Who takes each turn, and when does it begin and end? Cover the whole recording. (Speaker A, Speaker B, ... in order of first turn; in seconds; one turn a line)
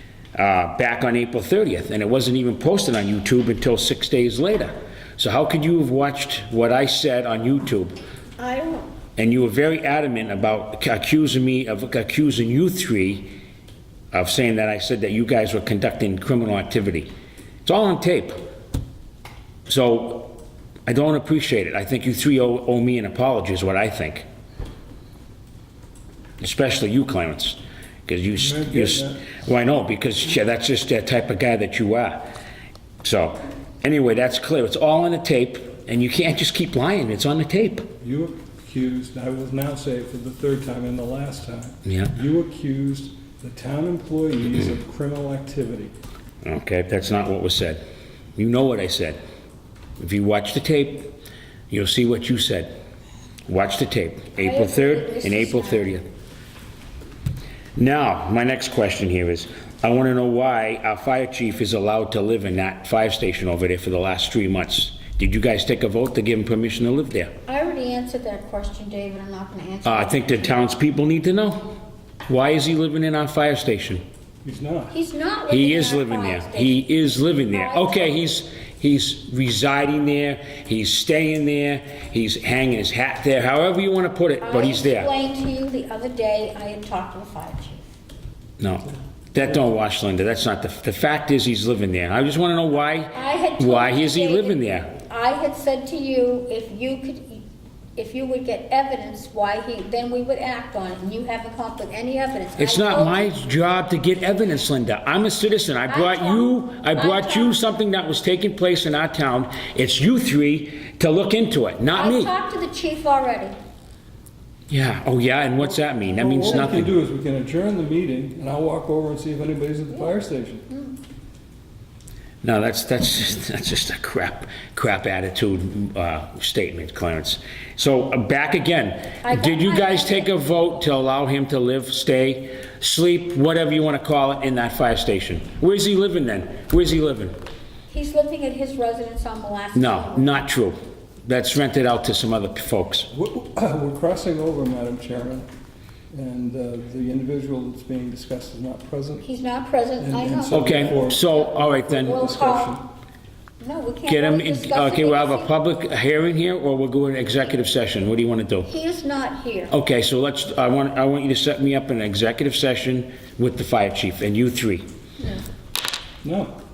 Speaker A: 0.3-7.9
Speaker B: 8.4-8.9
Speaker A: 9.2-13.3
Speaker A: 14.1-17.1
Speaker A: 17.6-18.4
Speaker A: 19.7-24.2
Speaker A: 26.4-32.2
Speaker C: 28.3-29.2
Speaker A: 33.0-37.9
Speaker C: 38.0-45.9
Speaker A: 41.9-42.1
Speaker A: 46.4-47.8
Speaker A: 48.4-49.2
Speaker A: 50.0-51.1
Speaker A: 51.7-52.7
Speaker A: 53.5-56.0
Speaker B: 54.4-56.0
Speaker A: 57.8-67.3
Speaker B: 67.5-70.8
Speaker A: 69.8-71.7
Speaker A: 72.3-74.0
Speaker C: 74.4-74.9
Speaker B: 74.9-76.8
Speaker A: 75.5-85.1
Speaker B: 77.5-78.2
Speaker B: 84.4-87.8
Speaker A: 88.6-94.9
Speaker B: 93.1-97.4
Speaker B: 98.0-103.3
Speaker A: 102.6-112.3
Speaker B: 105.9-107.5
Speaker B: 111.9-113.5
Speaker A: 114.7-116.9
Speaker C: 116.2-120.7
Speaker B: 120.7-120.9
Speaker A: 122.4-137.3
Speaker B: 129.2-130.3
Speaker B: 137.9-140.3
Speaker A: 139.7-143.1
Speaker C: 143.1-145.5
Speaker C: 146.1-149.2
Speaker B: 149.2-151.4
Speaker C: 150.0-152.8
Speaker A: 150.5-152.3
Speaker B: 152.0-152.7
Speaker B: 153.6-155.6
Speaker A: 154.1-158.7
Speaker B: 158.7-159.7
Speaker A: 159.7-164.9
Speaker C: 166.2-166.6